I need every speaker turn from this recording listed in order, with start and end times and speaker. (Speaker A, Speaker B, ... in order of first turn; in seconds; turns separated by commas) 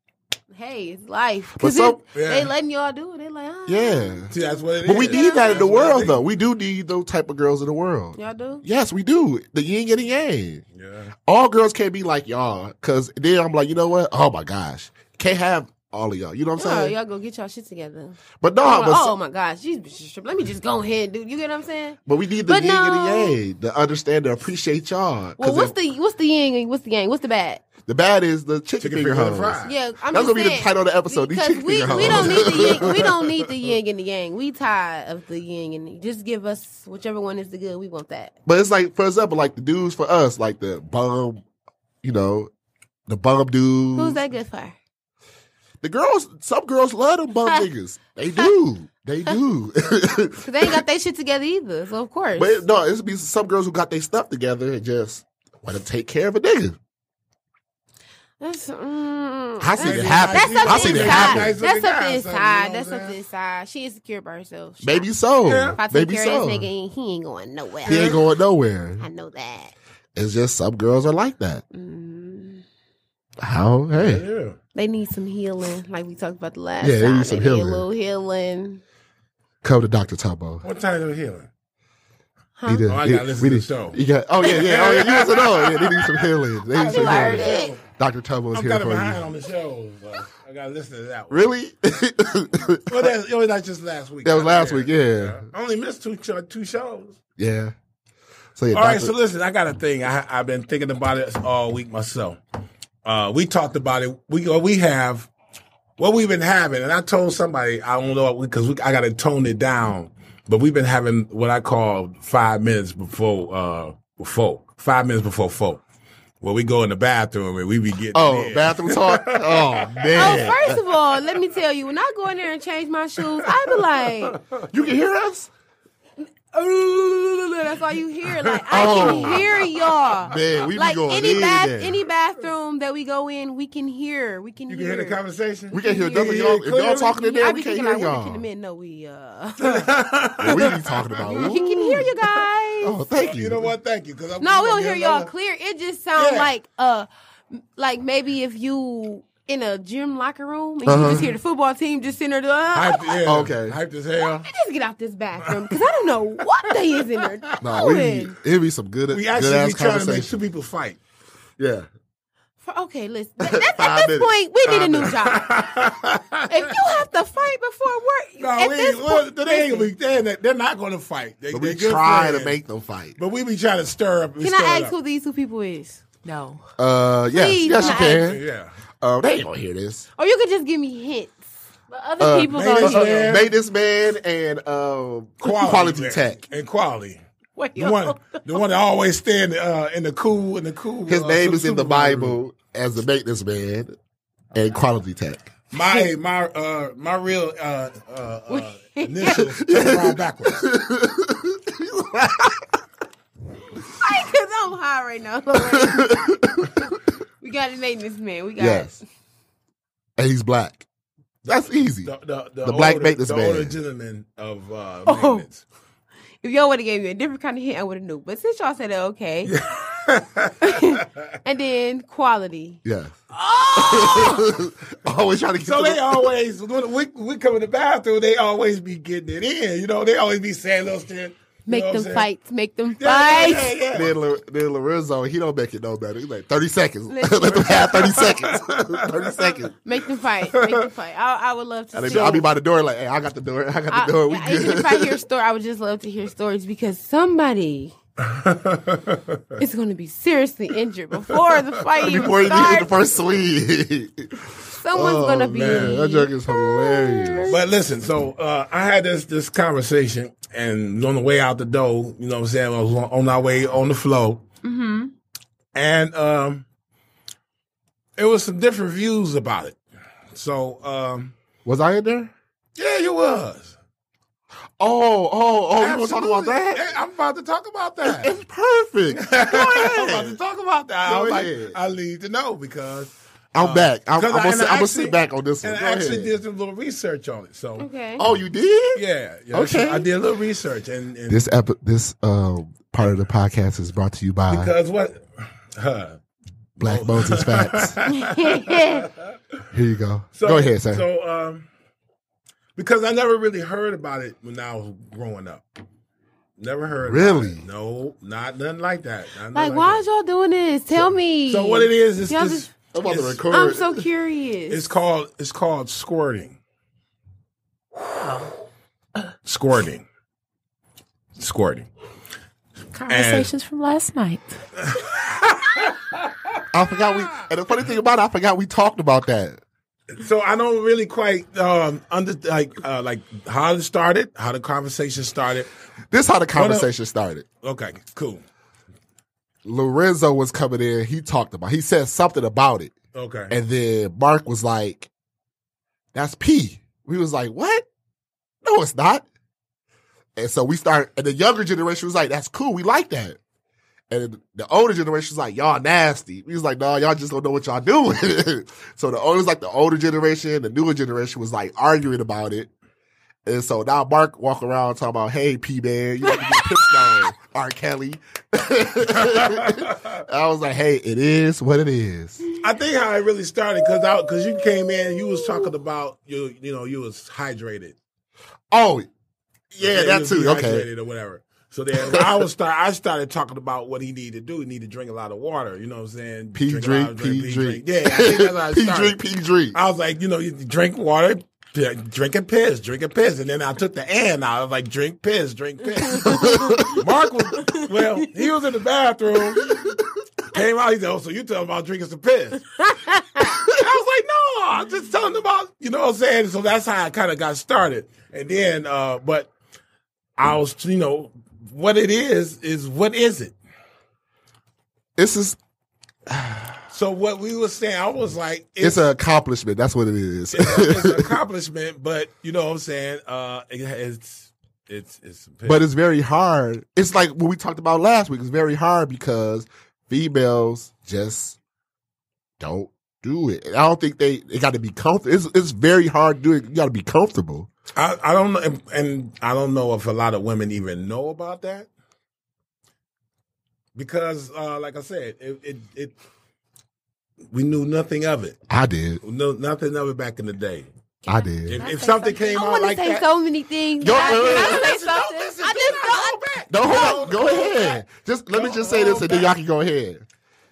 Speaker A: 0.5-5.7, Speaker B: 1.6-2.0, Speaker C: 2.1-2.5, Speaker B: 3.7-4.3, Speaker C: 4.3-6.2, Speaker B: 4.8-10.6, Speaker A: 8.2-8.6, Speaker C: 10.8-11.1, Speaker B: 11.3-16.9, Speaker A: 16.6-23.4, Speaker B: 18.4-19.1, Speaker B: 22.1-25.7, Speaker A: 25.4-27.6, Speaker B: 27.9-33.1, Speaker C: 28.8-29.8, Speaker A: 29.6-38.3, Speaker C: 31.9-33.5, Speaker B: 38.5-41.4, Speaker B: 42.0-42.5, Speaker B: 43.1-44.2, Speaker A: 44.0-44.8, Speaker B: 45.8-50.8, Speaker A: 50.4-52.6, Speaker B: 52.4-56.8, Speaker A: 58.4-65.1, Speaker B: 59.6-61.6, Speaker C: 59.8-63.2, Speaker B: 64.8-66.7, Speaker C: 65.5-65.8, Speaker A: 65.8-68.2, Speaker C: 67.9-68.2, Speaker B: 67.9-69.1, Speaker A: 69.0-69.7, Speaker B: 70.2-71.6, Speaker A: 71.7-72.6, Speaker B: 73.4-74.2, Speaker C: 74.0-74.6, Speaker A: 74.8-78.8, Speaker B: 76.8-77.8, Speaker B: 79.6-80.7, Speaker C: 80.6-81.5, Speaker A: 82.6-82.9, Speaker B: 82.7-89.2, Speaker C: 82.9-87.8, Speaker A: 86.8-87.8, Speaker C: 88.5-91.5, Speaker B: 91.3-93.1, Speaker C: 92.9-97.2, Speaker B: 94.2-95.5, Speaker B: 97.4-97.7, Speaker B: 98.6-99.1, Speaker C: 98.7-102.4, Speaker C: 103.0-105.3, Speaker C: 106.0-115.8, Speaker C: 116.4-120.8, Speaker B: 118.1-120.8, Speaker A: 120.2-124.4, Speaker C: 123.4-123.8, Speaker C: 124.3-124.6, Speaker B: 124.7-125.5, Speaker A: 126.2-135.2, Speaker C: 128.2-130.1, Speaker B: 128.7-129.5, Speaker B: 130.3-132.0, Speaker C: 134.7-137.2, Speaker B: 135.7-138.4, Speaker A: 135.7-139.9, Speaker C: 139.6-142.5, Speaker B: 140.4-142.1, Speaker A: 140.5-140.7, Speaker A: 141.2-143.0, Speaker B: 142.8-143.7, Speaker C: 143.1-145.3, Speaker A: 144.4-153.2, Speaker C: 146.2-146.5, Speaker B: 150.9-151.3, Speaker C: 150.9-151.3, Speaker C: 152.7-154.5, Speaker B: 153.3-153.8, Speaker A: 154.4-158.3, Speaker C: 155.5-155.8, Speaker B: 157.6-160.3, Speaker C: 159.1-161.0, Speaker B: 161.6-161.9, Speaker A: 162.6-165.5, Speaker B: 163.4-164.3, Speaker C: 164.7-166.9, Speaker A: 166.5-169.9, Speaker C: 168.4-172.6, Speaker B: 171.5-173.2, Speaker C: 173.2-174.9, Speaker A: 174.4-176.0, Speaker D: 176.2-176.7, Speaker B: 176.8-178.4, Speaker A: 177.3-178.4, Speaker C: 177.8-178.7, Speaker B: 179.0-180.1, Speaker A: 180.2-181.4, Speaker D: 181.9-183.4, Speaker B: 182.2-186.4, Speaker C: 182.5-183.5, Speaker C: 185.4-187.2, Speaker A: 187.6-188.6, Speaker C: 187.8-192.4, Speaker B: 191.1-194.0, Speaker B: 194.5-195.5, Speaker C: 195.7-200.7, Speaker A: 198.5-199.5, Speaker B: 199.6-202.6, Speaker A: 204.0-206.9, Speaker B: 205.8-206.7, Speaker A: 207.4-209.0, Speaker B: 208.6-209.0, Speaker B: 210.2-210.8, Speaker B: 211.4-212.1, Speaker C: 212.0-215.6, Speaker B: 212.6-213.8, Speaker A: 215.1-215.4, Speaker A: 216.4-219.5, Speaker C: 219.5-221.2, Speaker A: 220.6-222.8, Speaker B: 222.8-223.1, Speaker C: 223.4-224.4, Speaker B: 223.8-226.3, Speaker A: 223.8-224.2, Speaker C: 225.6-232.3, Speaker A: 231.7-233.8, Speaker C: 233.0-234.2, Speaker B: 233.9-239.7, Speaker A: 237.1-238.2, Speaker C: 237.5-239.6, Speaker A: 239.8-242.5, Speaker C: 240.5-240.9, Speaker B: 241.9-245.2, Speaker C: 242.1-242.4, Speaker A: 243.9-247.9, Speaker C: 248.2-249.6, Speaker A: 249.6-252.9, Speaker C: 251.3-252.3, Speaker B: 252.0-257.5, Speaker A: 254.8-257.6, Speaker C: 255.6-256.0, Speaker C: 257.5-264.4, Speaker A: 264.6-265.1, Speaker C: 265.7-266.6, Speaker C: 268.2-269.8, Speaker C: 270.3-271.4, Speaker B: 271.6-272.3, Speaker C: 272.8-273.8, Speaker B: 274.8-276.8, Speaker C: 275.8-278.3, Speaker B: 278.1-280.4, Speaker C: 279.1-287.9, Speaker B: 281.1-281.8, Speaker B: 283.5-286.3, Speaker A: 287.8-288.2, Speaker B: 288.2-290.1, Speaker C: 288.9-291.5, Speaker B: 291.3-294.7, Speaker C: 294.5-296.2, Speaker B: 296.8-298.0, Speaker C: 296.8-299.4, Speaker A: 298.1-299.1, Speaker B: 299.7-301.1, Speaker C: 300.4-301.7, Speaker C: 302.8-305.6, Speaker C: 306.6-310.0, Speaker B: 307.1-307.6, Speaker A: 309.5-312.7, Speaker C: 311.5-313.4, Speaker B: 312.9-314.1, Speaker A: 313.5-314.8, Speaker C: 314.7-316.6, Speaker C: 319.5-320.1, Speaker C: 321.4-321.9, Speaker D: 322.9-324.6, Speaker C: 323.1-323.5, Speaker C: 324.9-326.5, Speaker B: 326.7-329.6, Speaker C: 330.1-335.7, Speaker B: 336.1-337.5, Speaker C: 336.6-336.9, Speaker C: 337.6-338.4, Speaker B: 339.6-342.9, Speaker C: 343.1-343.5, Speaker B: 343.5-345.1, Speaker B: 346.1-347.9, Speaker B: 348.6-349.2, Speaker B: 350.4-353.4, Speaker B: 354.1-362.7, Speaker B: 363.4-372.4, Speaker A: 366.3-366.6, Speaker C: 369.1-370.2, Speaker C: 372.6-378.0, Speaker A: 373.9-375.6, Speaker B: 378.7-379.1, Speaker B: 379.7-380.9, Speaker C: 379.8-389.2, Speaker B: 386.5-389.8, Speaker C: 389.7-399.8, Speaker A: 396.1-397.0, Speaker B: 396.2-397.0, Speaker A: 397.6-398.3, Speaker C: 400.5-402.6, Speaker A: 402.8-403.6, Speaker C: 403.7-409.5, Speaker C: 410.4-413.6, Speaker B: 415.2-415.6, Speaker B: 416.3-416.8, Speaker C: 416.9-419.1, Speaker B: 418.8-421.4, Speaker C: 420.5-425.8, Speaker B: 425.6-431.6, Speaker B: 432.6-437.7, Speaker C: 437.9-441.9, Speaker C: 443.9-446.1, Speaker C: 447.5-448.6, Speaker B: 448.7-449.2, Speaker C: 449.2-450.9, Speaker B: 451.3-451.8, Speaker D: 451.3-452.7, Speaker C: 451.7-453.3, Speaker A: 452.5-454.9, Speaker B: 454.0-454.9, Speaker D: 454.1-456.1, Speaker C: 454.2-458.0, Speaker A: 455.6-457.9, Speaker B: 456.7-460.3, Speaker C: 458.5-459.5